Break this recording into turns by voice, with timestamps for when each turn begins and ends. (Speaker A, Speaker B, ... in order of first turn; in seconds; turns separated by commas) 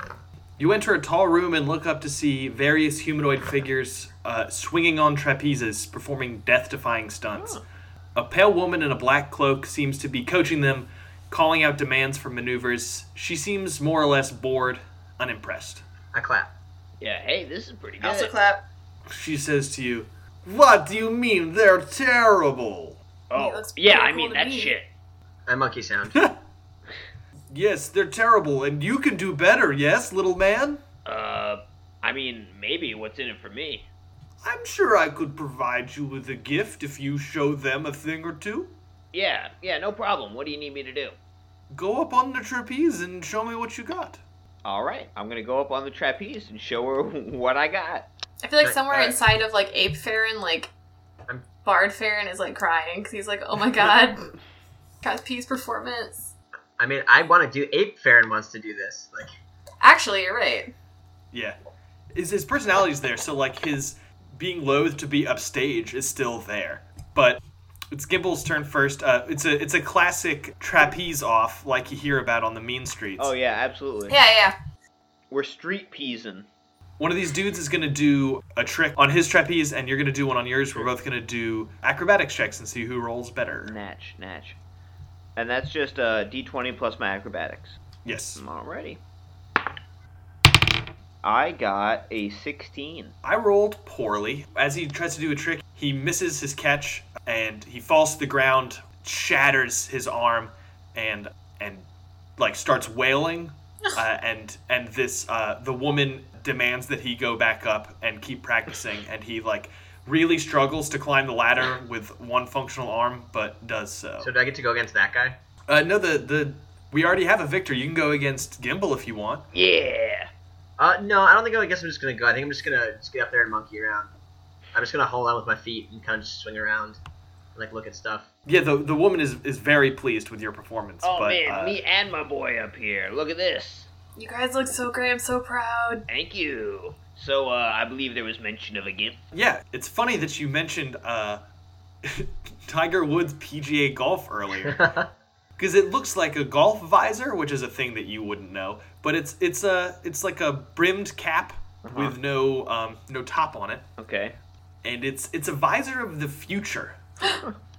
Speaker A: 0.6-7.6, Speaker B: 7.3-7.6, Speaker A: 8.1-15.8, Speaker C: 16.1-16.5, Speaker B: 17.0-18.3, Speaker D: 18.0-18.6, Speaker A: 19.1-23.0, Speaker B: 23.3-24.9, Speaker D: 23.3-24.7, Speaker C: 25.5-26.2, Speaker A: 27.5-30.8, Speaker B: 31.0-33.9, Speaker A: 34.4-38.7, Speaker B: 39.1-41.1, Speaker A: 41.7-44.2, Speaker B: 44.6-48.1, Speaker D: 48.4-50.7, Speaker C: 48.6-49.2, Speaker D: 51.6-54.3, Speaker D: 55.0-56.3, Speaker C: 56.8-59.3, Speaker D: 59.8-60.7, Speaker A: 62.1-73.3, Speaker B: 73.2-74.2, Speaker D: 74.1-74.5, Speaker B: 75.3-76.5, Speaker A: 77.0-83.7, Speaker B: 83.6-84.6, Speaker B: 85.3-87.8, Speaker A: 88.0-88.4, Speaker B: 88.4-89.0, Speaker B: 91.2-93.1, Speaker A: 93.2-101.8, Speaker A: 102.4-114.3, Speaker C: 114.2-115.4, Speaker A: 115.7-119.4, Speaker B: 119.5-120.3, Speaker C: 120.8-124.1, Speaker C: 124.7-127.0, Speaker C: 127.5-128.3, Speaker A: 128.4-131.8, Speaker B: 131.0-133.9, Speaker D: 134.2-136.0, Speaker B: 136.1-139.2, Speaker A: 139.3-141.4, Speaker A: 142.0-144.8, Speaker C: 144.6-145.1, Speaker A: 145.6-153.8, Speaker B: 151.8-152.2, Speaker B: 154.0-154.3, Speaker A: 154.8-157.0